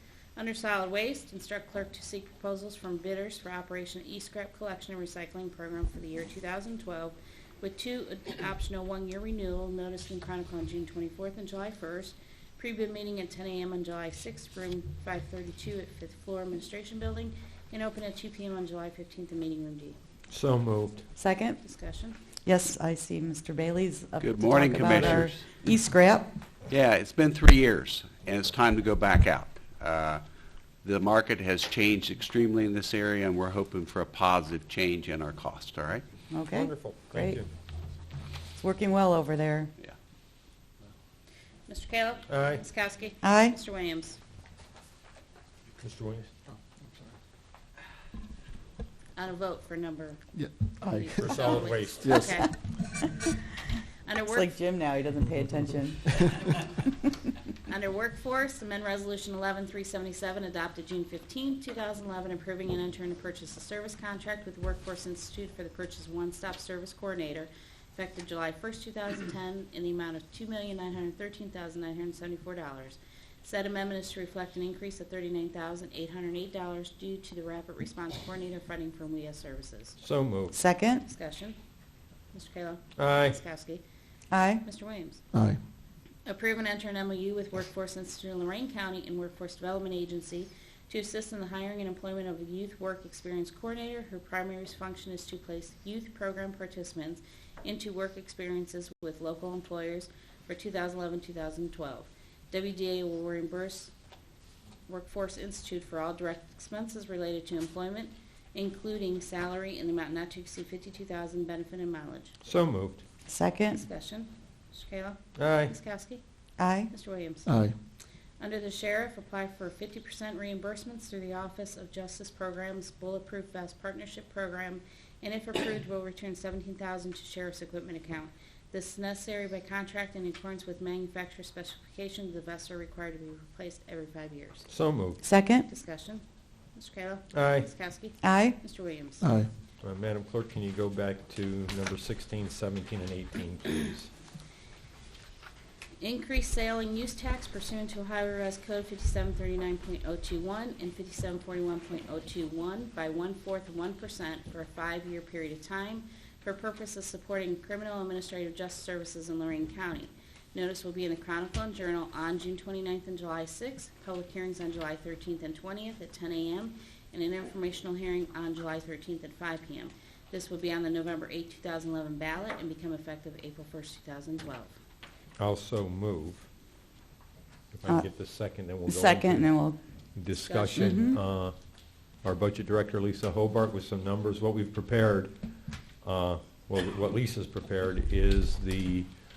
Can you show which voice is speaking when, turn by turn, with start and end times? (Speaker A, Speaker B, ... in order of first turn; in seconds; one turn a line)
Speaker A: 0.3-19.9
Speaker B: 20.3-21.0
Speaker C: 21.2-21.6
Speaker A: 21.6-22.2
Speaker C: 22.4-26.3
Speaker D: 24.2-25.4
Speaker B: 24.9-25.2
Speaker D: 26.7-30.2
Speaker D: 30.8-36.0
Speaker C: 36.3-37.4
Speaker B: 36.5-37.5
Speaker C: 38.6-39.7
Speaker A: 41.7-44.2
Speaker B: 42.3-42.6
Speaker C: 43.2-43.5
Speaker B: 45.8-46.3
Speaker A: 49.1-50.2
Speaker E: 50.4-51.2
Speaker A: 50.8-52.5
Speaker B: 51.1-52.1
Speaker E: 52.0-52.4
Speaker C: 53.0-53.3
Speaker A: 54.0-54.5
Speaker C: 54.3-57.1
Speaker A: 57.6-80.0
Speaker B: 80.0-80.5
Speaker C: 80.5-81.0
Speaker A: 81.0-81.6
Speaker A: 82.3-83.8
Speaker B: 83.0-83.4
Speaker C: 84.3-84.6
Speaker A: 84.6-85.2
Speaker E: 85.3-85.6
Speaker A: 86.2-103.9
Speaker A: 104.9-112.4
Speaker B: 112.4-113.0
Speaker C: 113.3-113.8
Speaker A: 113.7-116.2
Speaker B: 115.3-115.8
Speaker C: 116.6-116.9
Speaker A: 116.9-117.5
Speaker E: 117.5-117.7
Speaker A: 118.4-134.7
Speaker B: 134.7-135.2
Speaker C: 135.2-135.7
Speaker A: 135.7-136.2
Speaker A: 136.7-139.3
Speaker B: 137.3-137.7
Speaker C: 138.2-138.6
Speaker E: 139.2-139.5
Speaker B: 139.8-144.1
Speaker A: 146.0-174.8
Speaker B: 175.4-176.5
Speaker B: 177.7-179.5
Speaker C: 178.8-179.8
Speaker B: 180.1-181.6
Speaker A: 180.3-181.1
Speaker C: 180.8-181.2
Speaker B: 182.2-185.3
Speaker B: 186.0-189.1